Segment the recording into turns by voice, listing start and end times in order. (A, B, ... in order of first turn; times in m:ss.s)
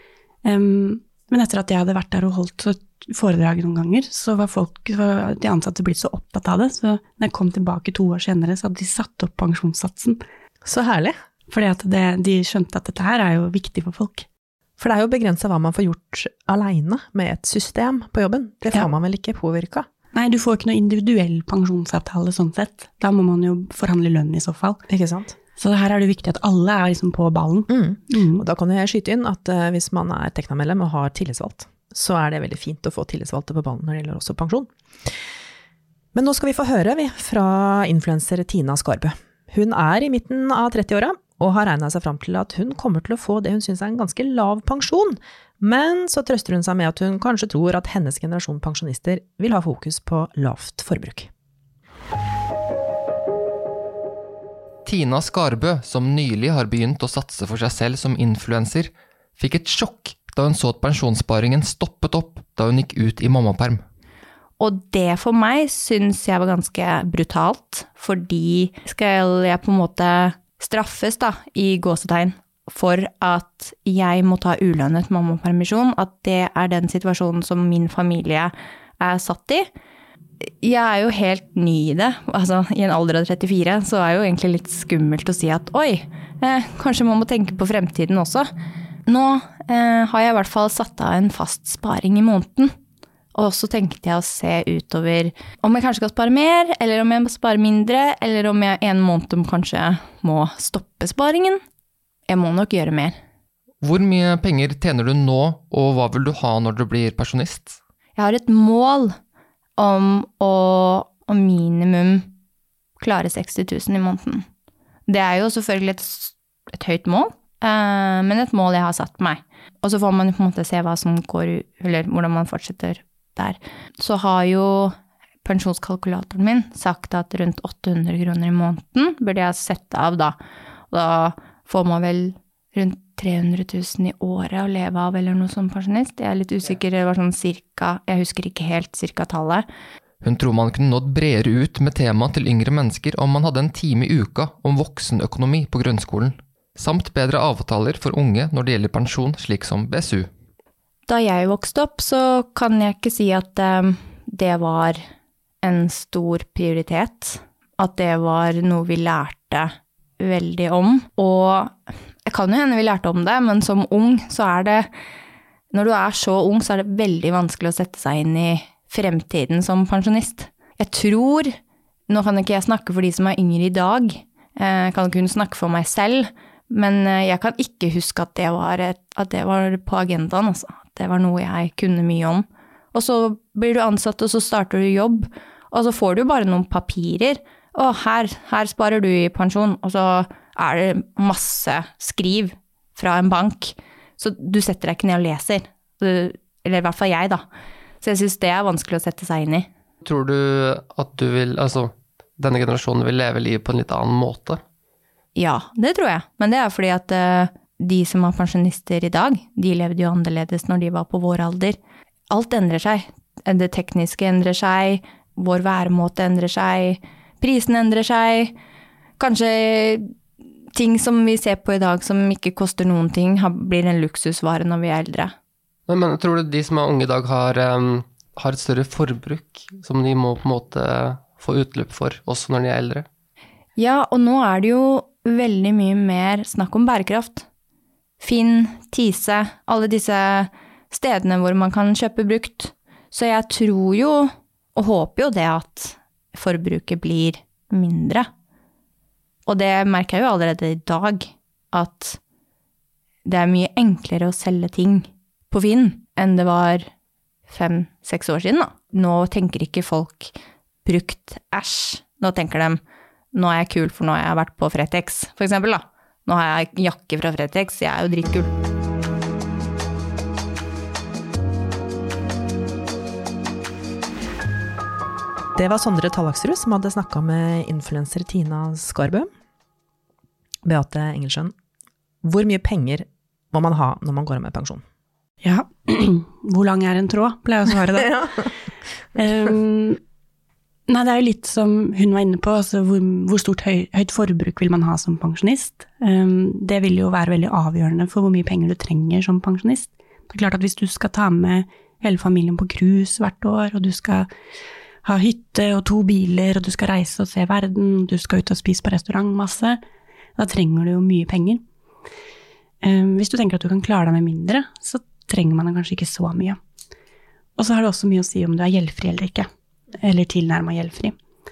0:00.4-0:10.2 A
0:10.6-0:11.2 B
0:11.5-0:14.3 A
0:14.8-0:19.9 B
0:20.1-0:24.8 A
0:24.9-0:25.4 B
0:25.6-0:28.4 A
0:27.7-0:35.1 B
0:36.2-0:51.3 B
0:54.8-1:03.8 C
1:04.6-1:19.7 D
1:20.5-1:28.5 D
1:29.1-1:32.7 D
1:33.3-1:41.6 D
1:42.3-1:43.2 D
1:43.8-1:47.8 C
1:48.2-1:49.2 D
1:49.8-1:52.3 D
1:53.0-1:54.5 D
1:55.1-2:10.4 D
2:10.9-2:19.7 D
2:20.2-2:30.3 C
2:31.1-2:35.0 D
2:35.6-2:41.8 D
2:42.3-2:44.9 D
2:45.7-2:51.6 D
2:52.1-3:17.4 D
3:18.0-3:19.7 D
3:20.0-3:24.6 E
3:25.4-3:31.8 D
3:32.3-3:38.6 D
3:39.2-3:40.1 D
3:40.8-3:45.3 D
3:45.9-3:53.1 E
3:53.8-3:57.5 D
3:58.2-4:08.3 D
4:09.5-4:12.2 D
4:13.2-4:16.9 D
4:17.5-4:20.3 D
4:20.8-4:22.8 D
4:23.3-4:28.5 D
4:35.6-4:39.3 B
4:40.6-4:41.6 B
4:42.2-4:44.8 B
4:45.4-4:48.5 A
4:48.0-4:48.3 B
4:49.2-4:50.0 A
4:50.9-5:04.3 A
5:05.0-5:09.8 A
5:10.4-5:11.6 A
5:12.8-5:16.6 A
5:17.6-5:19.5 A
5:20.0-5:21.1 A